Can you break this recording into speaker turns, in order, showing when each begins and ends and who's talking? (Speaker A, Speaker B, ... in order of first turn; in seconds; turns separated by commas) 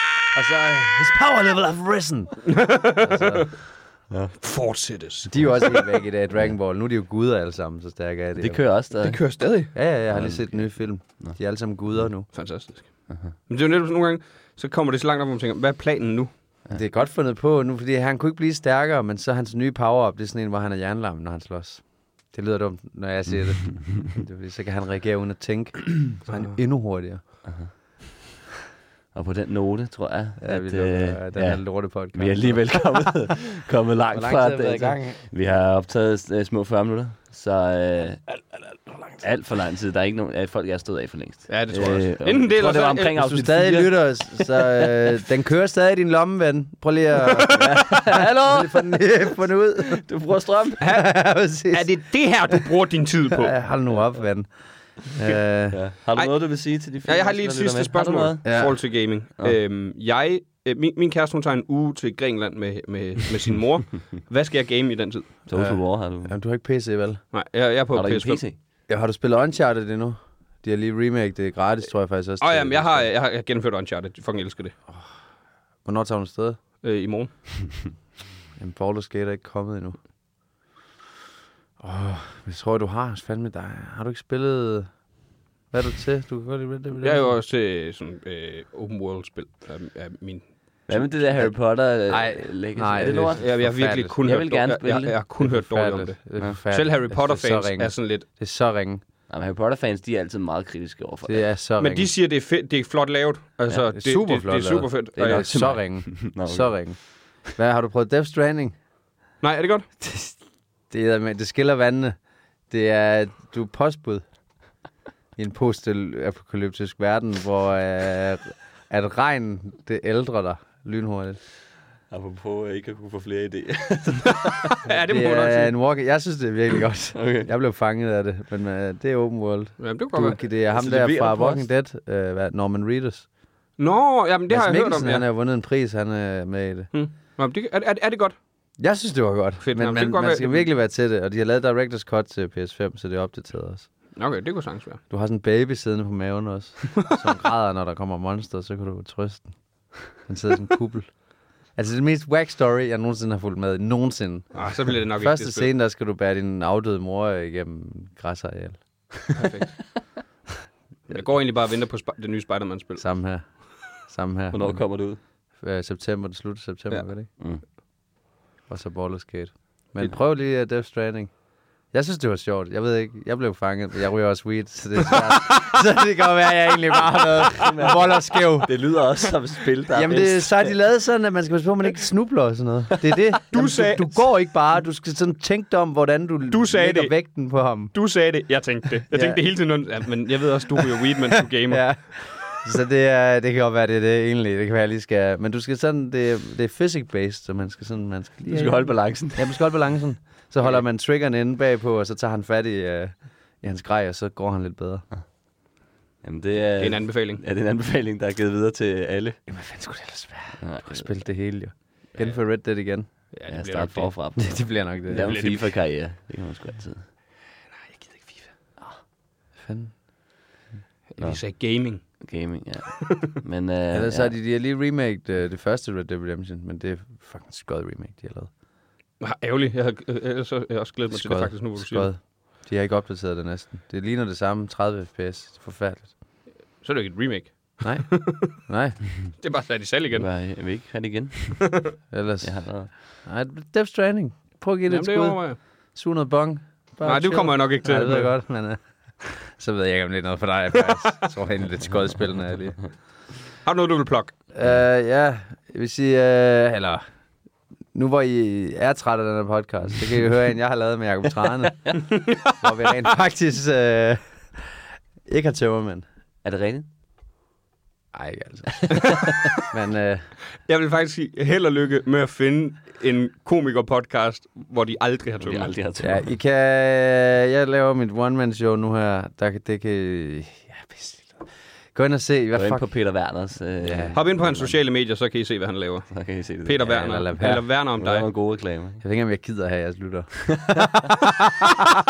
Speaker A: 0.3-3.5, Speaker B: 2.5-3.5, Speaker B: 4.4-5.8, Speaker A: 5.3-8.6, Speaker C: 8.3-9.2, Speaker B: 9.0-9.7, Speaker A: 9.7-12.3, Speaker C: 10.1-10.6, Speaker B: 12.3-16.3, Speaker A: 16.7-27.4, Speaker B: 26.2-26.6, Speaker C: 27.4-27.7, Speaker C: 29.1-38.2, Speaker A: 30.4-33.1, Speaker A: 34.1-35.2, Speaker C: 39.2-44.9, Speaker B: 41.5-43.1, Speaker A: 43.1-50.0, Speaker C: 47.5-49.0, Speaker C: 50.0-50.8, Speaker B: 50.8-53.6, Speaker A: 50.8-52.6, Speaker A: 53.3-55.8, Speaker C: 55.7-58.4, Speaker B: 56.2-65.4, Speaker A: 58.4-58.8, Speaker C: 65.5-66.3, Speaker A: 65.5-67.2, Speaker B: 67.3-68.4, Speaker C: 67.9-68.6, Speaker A: 68.9-73.1, Speaker B: 72.4-74.7, Speaker A: 75.8-76.6, Speaker B: 76.8-77.7, Speaker A: 78.6-80.0, Speaker A: 81.8-84.9, Speaker A: 85.7-87.3, Speaker B: 87.0-90.5, Speaker C: 90.9-93.5, Speaker A: 91.3-94.2, Speaker B: 93.4-98.2, Speaker C: 94.2-95.2, Speaker A: 95.4-99.0, Speaker C: 99.3-101.5, Speaker A: 101.2-102.1, Speaker B: 101.8-105.7, Speaker A: 103.9-108.7, Speaker C: 105.2-106.8, Speaker B: 109.4-109.8, Speaker A: 110.0-110.4, Speaker A: 110.9-112.2, Speaker A: 112.7-114.2, Speaker A: 115.4-121.4, Speaker C: 122.1-124.7, Speaker B: 124.5-125.7, Speaker A: 124.9-133.3, Speaker C: 127.1-127.5, Speaker B: 129.8-130.4, Speaker C: 130.7-131.7, Speaker B: 133.8-135.2, Speaker A: 134.5-136.9, Speaker B: 136.9-138.3, Speaker A: 138.8-143.9, Speaker B: 139.6-140.7, Speaker B: 144.1-145.0, Speaker A: 145.1-158.8, Speaker B: 154.5-155.7, Speaker B: 159.3-160.0, Speaker B: 161.1-163.0, Speaker A: 163.0-164.8, Speaker C: 164.5-165.2, Speaker A: 165.6-167.3, Speaker C: 167.4-167.6, Speaker A: 168.7-171.3, Speaker A: 171.9-178.7, Speaker C: 177.6-180.7, Speaker A: 179.9-187.9, Speaker B: 183.5-184.3, Speaker B: 186.5-192.0, Speaker A: 189.1-189.4, Speaker A: 191.7-205.0, Speaker C: 198.5-199.6, Speaker C: 206.2-209.4, Speaker B: 206.8-207.4, Speaker A: 209.5-213.1, Speaker C: 210.6-211.1, Speaker B: 213.3-214.1, Speaker C: 213.5-217.1, Speaker A: 214.4-215.5, Speaker B: 215.1-215.7, Speaker B: 217.8-218.5, Speaker A: 219.6-220.0, Speaker B: 221.1-222.0, Speaker C: 222.2-224.3, Speaker A: 223.9-228.5, Speaker B: 229.2-232.1, Speaker A: 231.1-236.1, Speaker B: 236.8-238.6, Speaker A: 237.8-239.0, Speaker B: 239.4-240.3, Speaker C: 240.1-241.8, Speaker A: 242.1-252.8, Speaker C: 242.4-242.9, Speaker B: 244.9-245.6, Speaker B: 247.0-248.3, Speaker B: 253.6-254.3, Speaker A: 254.5-257.0, Speaker A: 257.9-266.0, Speaker C: 266.4-266.9, Speaker A: 268.1-270.3, Speaker C: 268.8-269.1, Speaker B: 269.0-269.5, Speaker B: 270.6-275.7, Speaker C: 275.4-276.3, Speaker A: 276.0-282.8, Speaker C: 282.5-284.7, Speaker A: 283.8-284.2, Speaker B: 284.1-288.3, Speaker C: 286.1-287.0, Speaker A: 286.8-287.7, Speaker C: 288.0-289.0, Speaker A: 289.0-291.8, Speaker C: 290.5-290.9